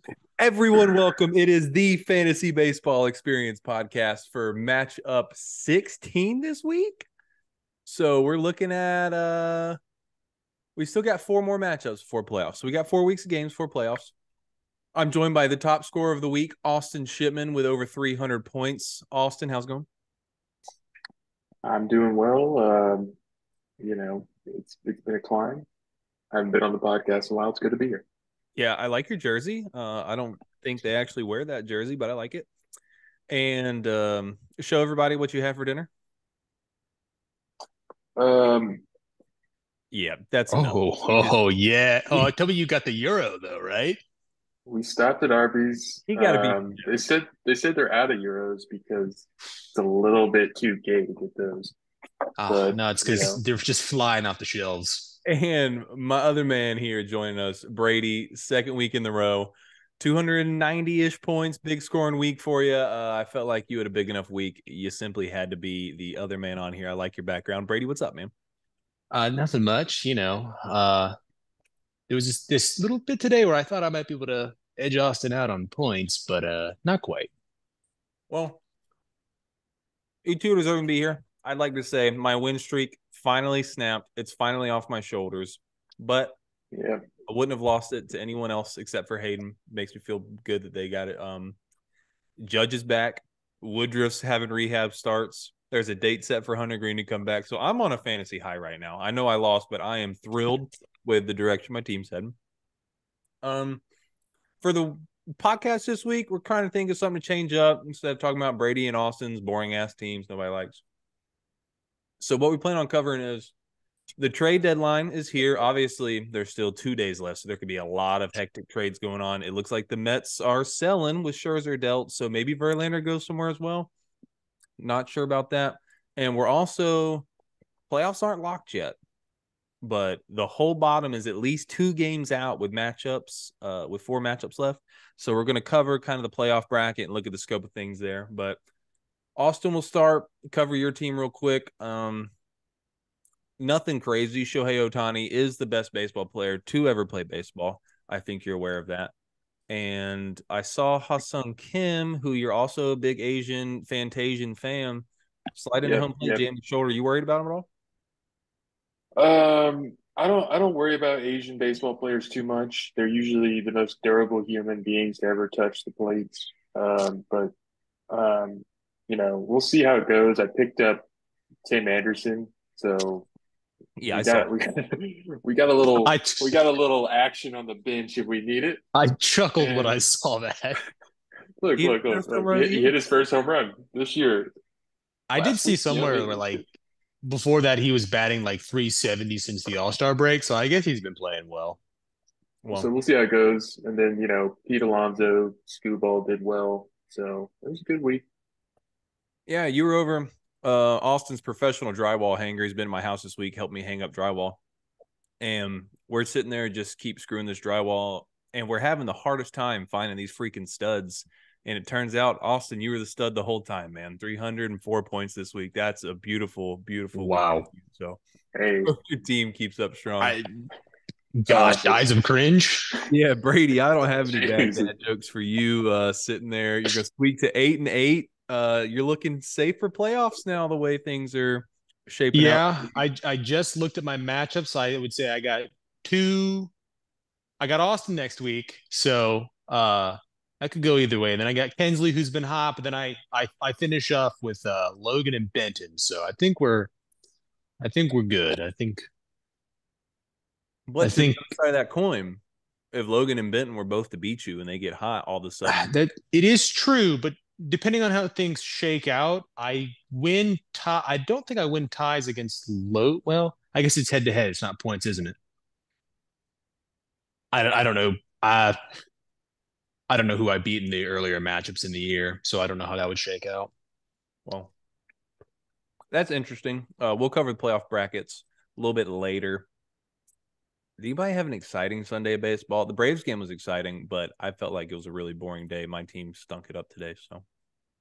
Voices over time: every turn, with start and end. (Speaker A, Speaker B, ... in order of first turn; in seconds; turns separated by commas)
Speaker A: 0.4-7.1, Speaker A: 7.9-9.8, Speaker A: 10.8-14.1, Speaker A: 14.9-19.9, Speaker B: 21.6-23.1, Speaker B: 23.8-25.7, Speaker B: 26.3-28.1, Speaker A: 28.6-32.5, Speaker A: 33.3-35.9, Speaker B: 38.2-38.8, Speaker A: 39.9-41.4, Speaker C: 40.5-44.0, Speaker B: 44.7-51.8, Speaker A: 46.1-46.8, Speaker C: 52.4-55.2, Speaker B: 52.5-53.4, Speaker A: 55.2-68.3, Speaker C: 69.1-71.1, Speaker C: 72.1-77.3, Speaker A: 78.3-78.6, Speaker A: 80.2-86.4, Speaker B: 86.7-87.0, Speaker A: 87.3-91.6, Speaker A: 92.4-102.3, Speaker A: 103.4-103.8, Speaker A: 104.6-110.8, Speaker A: 112.2-113.5, Speaker A: 114.2-123.9, Speaker A: 124.8-127.3, Speaker A: 127.9-129.0, Speaker A: 129.8-138.6, Speaker A: 139.3-142.3, Speaker A: 143.6-149.1, Speaker A: 149.7-157.7, Speaker B: 155.8-156.4, Speaker B: 159.2-167.5, Speaker B: 168.1-171.1, Speaker B: 171.7-173.3, Speaker A: 174.0-174.5, Speaker B: 174.1-178.8, Speaker C: 176.0-176.6, Speaker C: 178.9-180.8, Speaker B: 179.6-180.0, Speaker B: 181.6-184.5, Speaker A: 181.8-182.9, Speaker C: 185.3-191.8, Speaker B: 185.3-186.6, Speaker A: 192.6-192.9, Speaker B: 192.7-198.2, Speaker A: 199.5-204.6, Speaker A: 205.4-218.2, Speaker C: 217.1-217.7, Speaker B: 218.5-218.9, Speaker A: 218.8-220.4, Speaker C: 220.2-220.7, Speaker C: 221.3-223.0, Speaker B: 221.5-222.0, Speaker A: 223.1-232.9, Speaker B: 224.3-224.9, Speaker C: 232.3-236.7, Speaker C: 237.6-246.9, Speaker C: 247.8-249.0, Speaker A: 250.9-252.4, Speaker C: 251.0-251.4, Speaker A: 252.9-255.9, Speaker C: 255.7-265.4, Speaker C: 267.5-268.8, Speaker C: 270.1-273.7, Speaker A: 274.5-274.7, Speaker A: 276.1-279.7, Speaker A: 281.0-287.4